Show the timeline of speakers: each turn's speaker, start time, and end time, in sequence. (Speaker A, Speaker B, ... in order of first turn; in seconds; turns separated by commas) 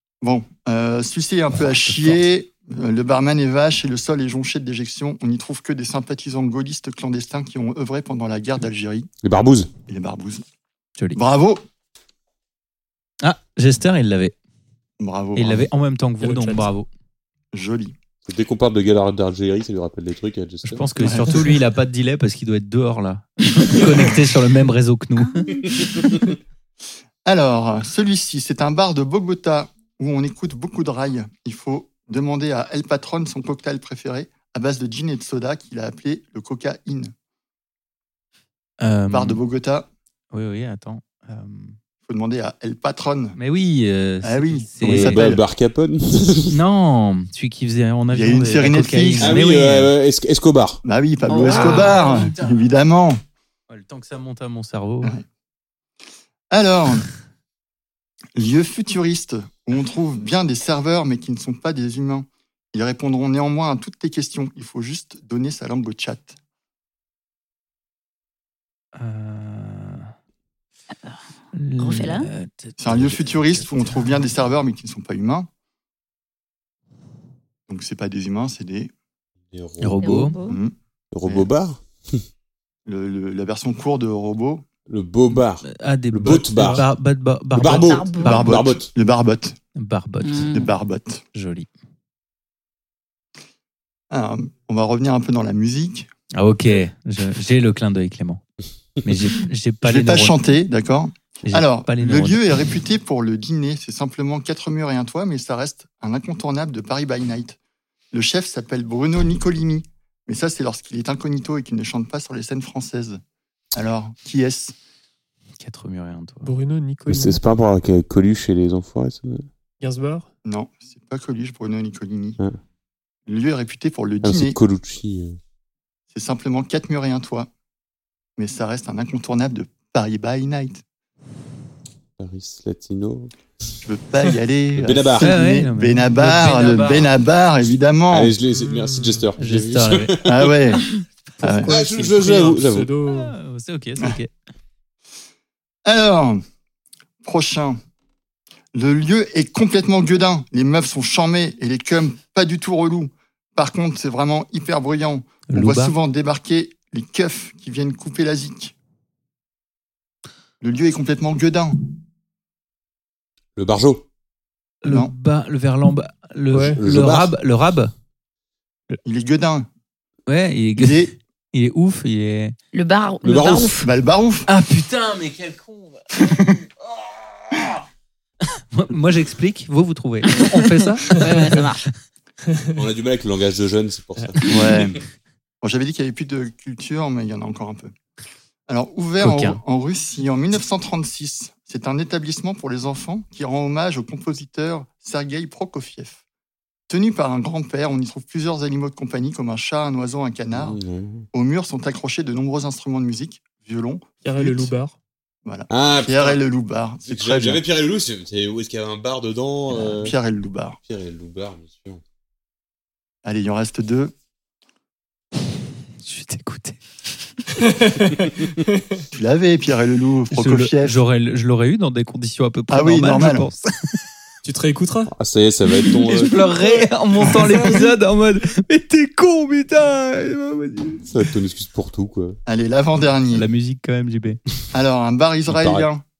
Speaker A: 0.2-9.1, Speaker B: 1.5-2.2, Speaker C: 9.2-9.7, Speaker A: 9.9-10.4, Speaker A: 11.1-11.6, Speaker B: 13.2-14.3, Speaker A: 15.0-15.7, Speaker B: 15.3-16.9, Speaker D: 16.2-16.7, Speaker A: 17.5-17.9, Speaker C: 18.3-20.9, Speaker B: 20.6-25.6, Speaker A: 21.0-21.4, Speaker E: 25.3-26.1, Speaker A: 27.2-37.1, Speaker B: 38.8-39.4, Speaker A: 39.1-39.9, Speaker B: 40.3-41.8, Speaker A: 42.0-43.4, Speaker B: 43.4-45.2, Speaker A: 44.2-45.4, Speaker C: 44.8-46.6, Speaker B: 46.5-49.9, Speaker A: 48.1-49.4, Speaker C: 49.2-50.8, Speaker A: 50.8-53.2, Speaker E: 51.3-52.0, Speaker B: 51.5-52.6, Speaker B: 53.7-55.1, Speaker A: 56.5-57.0, Speaker A: 58.3-66.3, Speaker B: 69.0-70.1, Speaker B: 71.5-73.7, Speaker E: 71.8-72.3, Speaker A: 72.8-75.5, Speaker A: 77.7-78.9, Speaker C: 79.5-80.3, Speaker B: 79.8-80.3, Speaker E: 80.0-80.6, Speaker A: 80.4-80.7, Speaker C: 81.1-82.2, Speaker A: 82.8-84.7, Speaker C: 84.9-86.9, Speaker B: 85.6-88.5, Speaker C: 87.5-88.9, Speaker E: 87.7-88.4, Speaker A: 88.2-89.6, Speaker B: 89.8-90.5, Speaker E: 90.2-90.7, Speaker A: 90.5-91.2, Speaker B: 91.3-91.7, Speaker A: 94.1-96.1, Speaker B: 96.3-98.4, Speaker B: 99.0-100.4, Speaker A: 99.8-107.6, Speaker B: 101.4-102.5, Speaker A: 108.1-113.2, Speaker A: 113.7-114.8, Speaker B: 115.6-116.5, Speaker D: 116.4-117.4, Speaker C: 117.1-119.5, Speaker D: 119.8-120.3, Speaker A: 120.4-122.4, Speaker A: 123.3-124.6, Speaker C: 124.2-125.4, Speaker A: 126.1-127.5, Speaker A: 128.4-130.8, Speaker C: 132.2-133.3, Speaker A: 133.8-138.3, Speaker C: 134.8-135.4, Speaker B: 135.2-137.1, Speaker C: 138.1-140.5, Speaker D: 138.5-139.2, Speaker B: 139.4-140.2, Speaker A: 140.2-140.8, Speaker A: 141.4-141.8, Speaker D: 141.6-143.3, Speaker C: 141.7-142.9, Speaker B: 143.1-144.3, Speaker A: 145.8-146.4, Speaker A: 147.2-147.8, Speaker A: 148.7-158.7, Speaker B: 155.5-155.9, Speaker A: 160.6-161.8, Speaker C: 163.6-164.0, Speaker B: 164.8-167.9, Speaker A: 164.8-165.1, Speaker D: 166.5-166.8, Speaker C: 166.8-167.3, Speaker A: 169.0-169.7, Speaker B: 170.3-172.6, Speaker A: 170.8-171.1, Speaker E: 172.7-173.9, Speaker C: 173.2-173.8, Speaker A: 173.8-174.5, Speaker B: 174.5-176.1, Speaker A: 176.2-176.6, Speaker B: 178.7-181.9, Speaker E: 181.1-181.8, Speaker C: 182.8-185.0, Speaker B: 184.3-184.8, Speaker A: 184.4-185.0, Speaker A: 185.6-187.9, Speaker A: 188.7-196.2, Speaker B: 189.2-189.6, Speaker A: 196.9-200.8, Speaker C: 200.5-201.2, Speaker A: 201.3-204.7, Speaker D: 204.2-204.9, Speaker A: 205.4-207.6, Speaker C: 205.7-206.4, Speaker C: 207.1-210.1, Speaker A: 209.7-210.8, Speaker C: 210.9-212.0, Speaker A: 213.2-214.1, Speaker B: 216.0-216.8, Speaker D: 217.6-219.0, Speaker A: 219.1-221.0, Speaker B: 220.3-224.0, Speaker A: 222.7-223.5, Speaker D: 224.4-225.1, Speaker C: 225.1-226.5, Speaker B: 225.9-231.3, Speaker C: 231.1-232.4, Speaker A: 232.5-233.5, Speaker B: 233.3-234.4, Speaker A: 234.7-236.0, Speaker C: 235.5-235.8